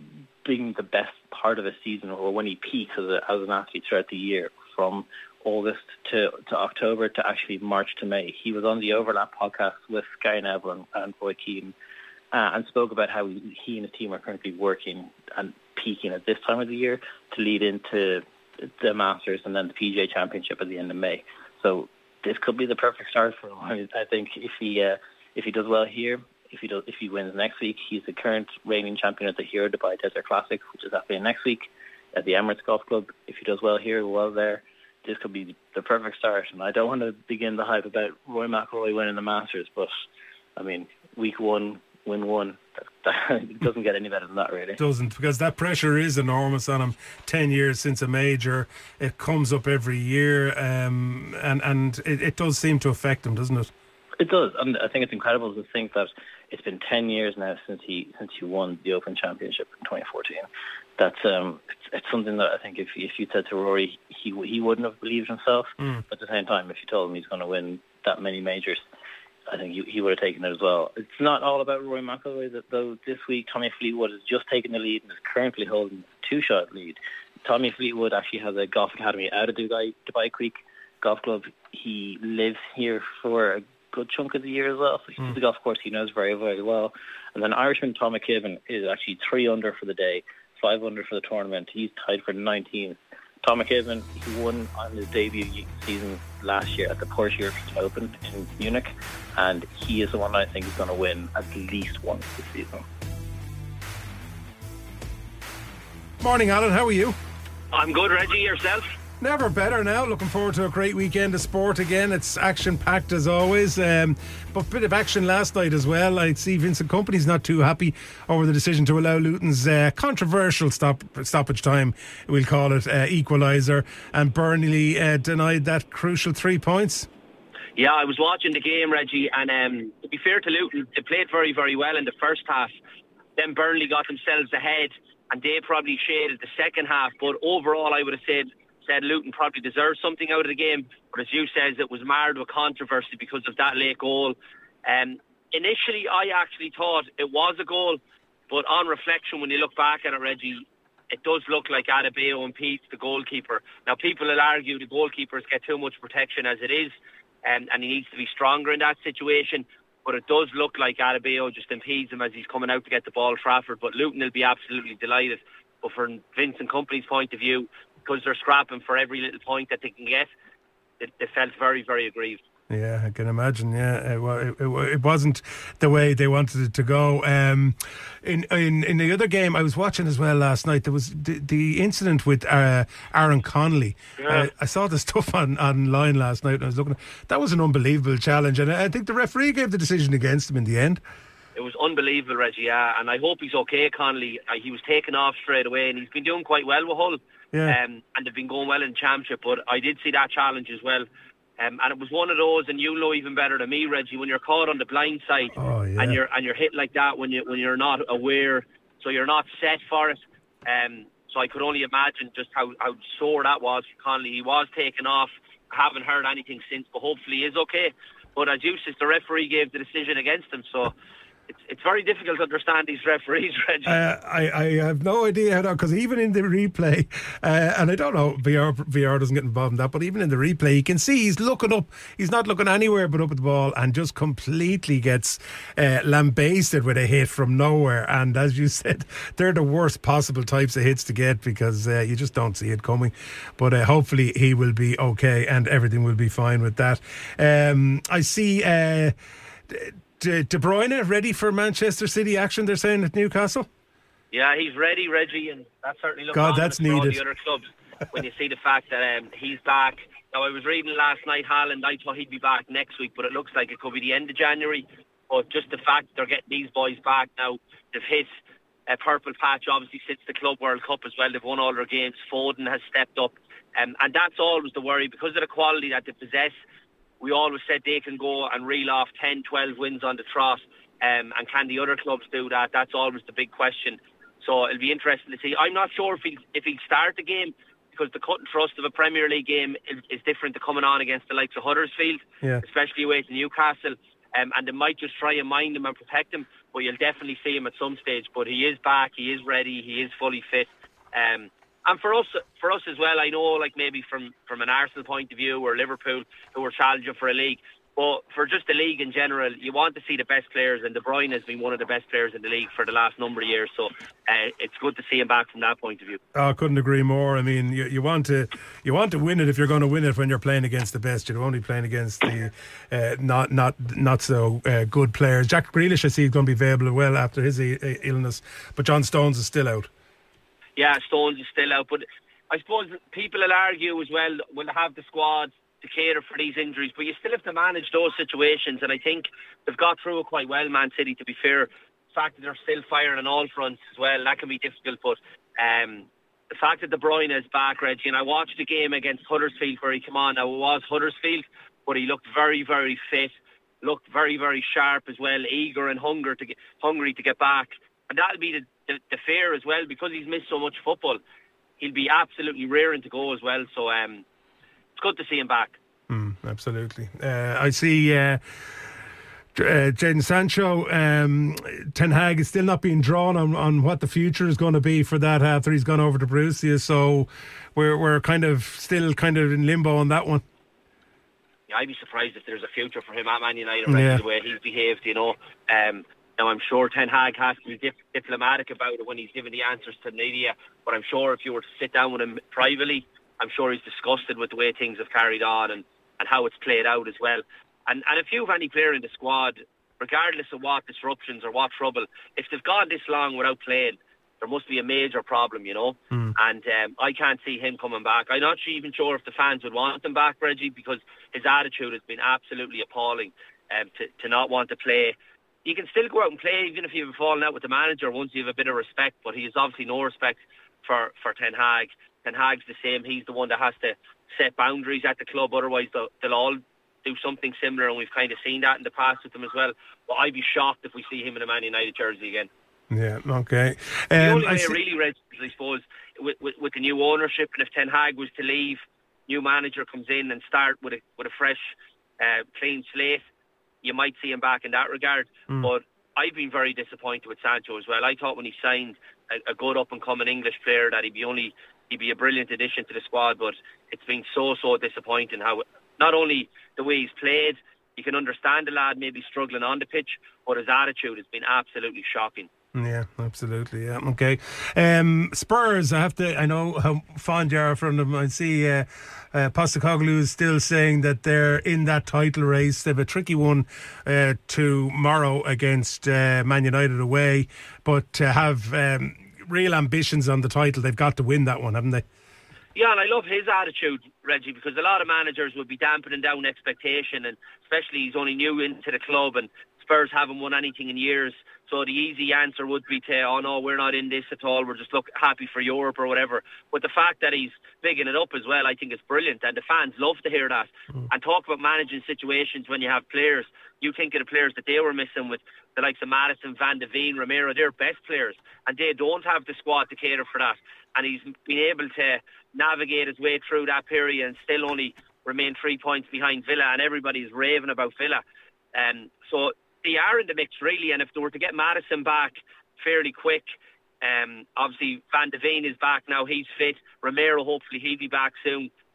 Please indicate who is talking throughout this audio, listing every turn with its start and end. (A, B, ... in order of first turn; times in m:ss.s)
0:00.4-0:11.7 A
0:12.3-0:40.0 A
0:40.6-0:44.8 A
0:44.8-0:53.7 B
0:54.2-1:00.5 A
1:01.0-1:08.8 A
1:09.5-1:42.8 A
1:46.2-1:47.2 B
1:47.7-1:48.9 C
1:49.2-2:07.1 B
2:07.8-2:12.7 C
2:13.4-2:50.3 C
2:51.0-2:52.4 C
2:52.7-3:11.0 B
3:04.2-3:04.5 C
3:11.6-3:21.1 C
3:21.6-3:40.9 C
3:25.6-3:26.2 B
3:41.5-3:44.0 C
3:43.9-4:09.1 B
4:09.7-4:13.7 B
4:14.3-4:28.3 C
4:16.3-4:17.2 B
4:28.9-4:36.6 C
4:37.2-5:16.2 C
5:16.3-5:29.9 B
5:30.8-6:01.2 C
6:01.8-6:04.2 C
6:05.0-6:05.8 C
6:06.1-6:08.9 B
6:09.6-6:20.4 B
6:21.7-7:12.5 C
6:23.9-6:24.2 B
7:12.9-7:14.8 B
7:14.2-7:23.2 C
7:23.8-7:42.5 C
7:42.7-8:02.0 B
8:02.7-8:38.2 C
8:38.7-8:48.7 C